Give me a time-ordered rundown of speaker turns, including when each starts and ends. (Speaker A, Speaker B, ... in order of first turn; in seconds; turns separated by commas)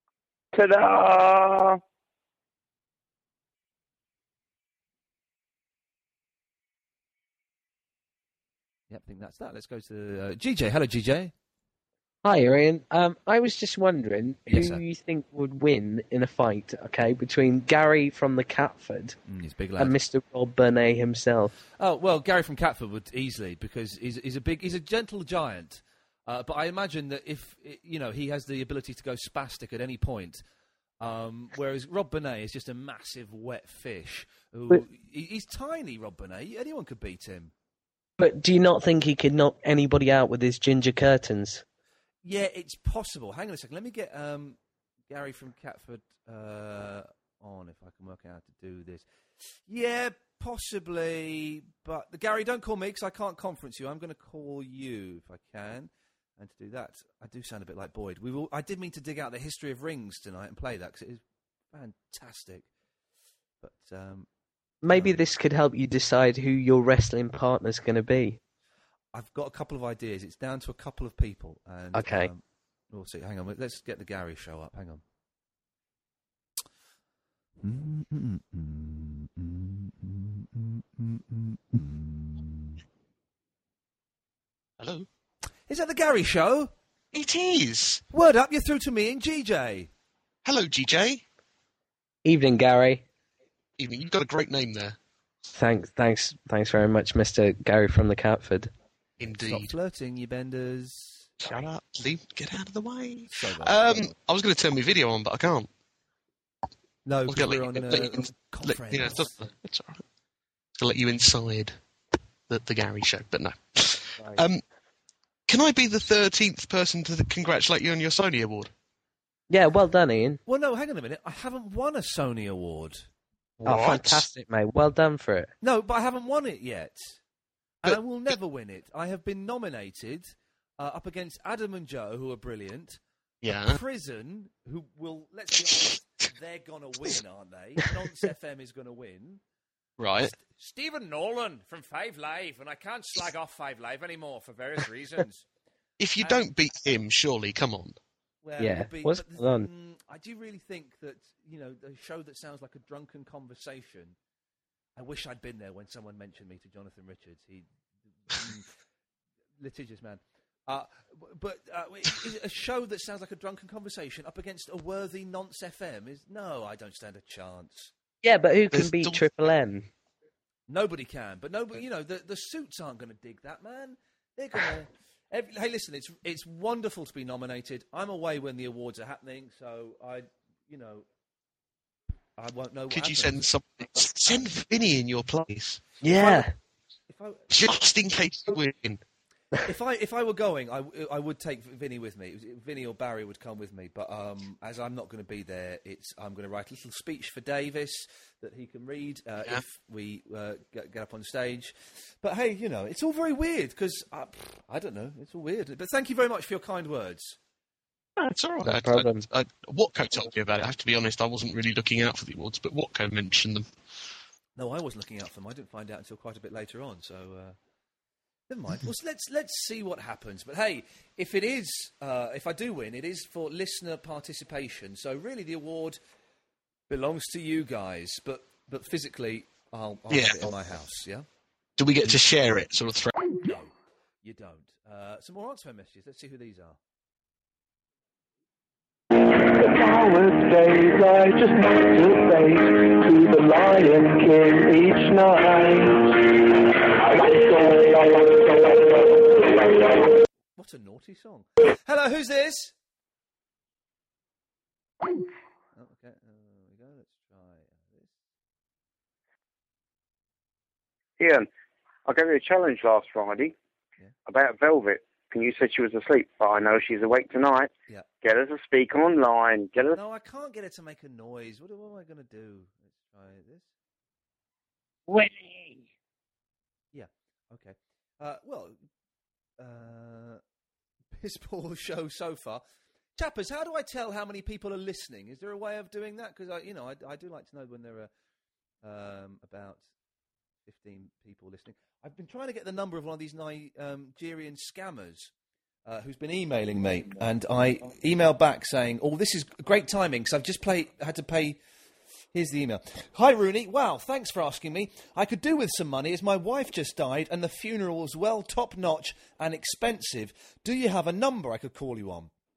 Speaker A: 8.9-11.3, Speaker B: 12.2-19.2, Speaker A: 14.5-14.8, Speaker A: 19.3-19.9, Speaker B: 19.8-21.5, Speaker A: 21.8-30.4, Speaker A: 31.0-37.5, Speaker B: 38.2-41.6, Speaker A: 42.2-44.6, Speaker A: 45.1-49.1, Speaker A: 49.7-61.2, Speaker A: 61.7-62.7, Speaker A: 63.6-64.3, Speaker B: 64.8-68.4, Speaker A: 64.9-65.2, Speaker A: 69.1-75.0, Speaker B: 71.9-72.3, Speaker A: 77.6-82.8, Speaker C: 84.8-85.1, Speaker A: 85.7-86.7, Speaker C: 87.1-88.0, Speaker A: 88.1-89.9, Speaker C: 90.4-91.2, Speaker B: 92.2-93.0, Speaker C: 93.8-95.0, Speaker B: 95.5-98.7, Speaker C: 99.2-99.7, Speaker A: 99.2-101.3, Speaker C: 101.4-105.7, Speaker A: 103.3-104.2, Speaker A: 107.1-109.4, Speaker C: 107.3-110.0, Speaker C: 110.8-111.8, Speaker C: 112.5-114.6, Speaker C: 115.5-118.7, Speaker B: 119.5-120.4, Speaker A: 120.5-123.1, Speaker B: 123.6-125.5, Speaker C: 123.6-124.3, Speaker A: 125.6-127.2, Speaker A: 127.8-133.0, Speaker C: 133.4-133.8, Speaker A: 133.7-139.4, Speaker C: 140.0-140.3, Speaker A: 140.2-145.4, Speaker C: 146.0-148.0, Speaker A: 148.4-154.2, Speaker B: 148.6-149.7, Speaker A: 155.0-157.7, Speaker A: 158.3-158.7, Speaker A: 159.6-167.9, Speaker B: 168.2-169.9, Speaker C: 168.7-169.3, Speaker A: 170.7-181.1, Speaker A: 182.4-183.4, Speaker C: 182.9-185.8, Speaker A: 184.2-184.5, Speaker B: 186.0-186.5, Speaker A: 186.1-186.5, Speaker A: 187.1-187.5, Speaker C: 187.5-189.0, Speaker A: 189.7-207.4, Speaker C: 208.2-213.7, Speaker B: 208.6-209.3, Speaker A: 214.6-217.6, Speaker A: 218.5-226.0, Speaker A: 226.9-231.3, Speaker C: 230.1-230.5, Speaker C: 231.8-233.1, Speaker A: 233.4-233.7, Speaker A: 234.2-236.8, Speaker D: 239.4-246.2, Speaker D: 247.1-250.0, Speaker A: 250.6-252.7, Speaker A: 255.8-258.2, Speaker E: 261.2-261.5, Speaker E: 262.1-263.5, Speaker E: 264.3-267.7, Speaker E: 268.2-270.0, Speaker A: 269.9-273.7, Speaker A: 276.9-278.8, Speaker A: 279.6-280.4, Speaker A: 281.2-282.6, Speaker A: 283.2-288.1, Speaker A: 288.8-289.8, Speaker A: 290.7-295.3, Speaker A: 295.9-301.6, Speaker A: 302.3-312.3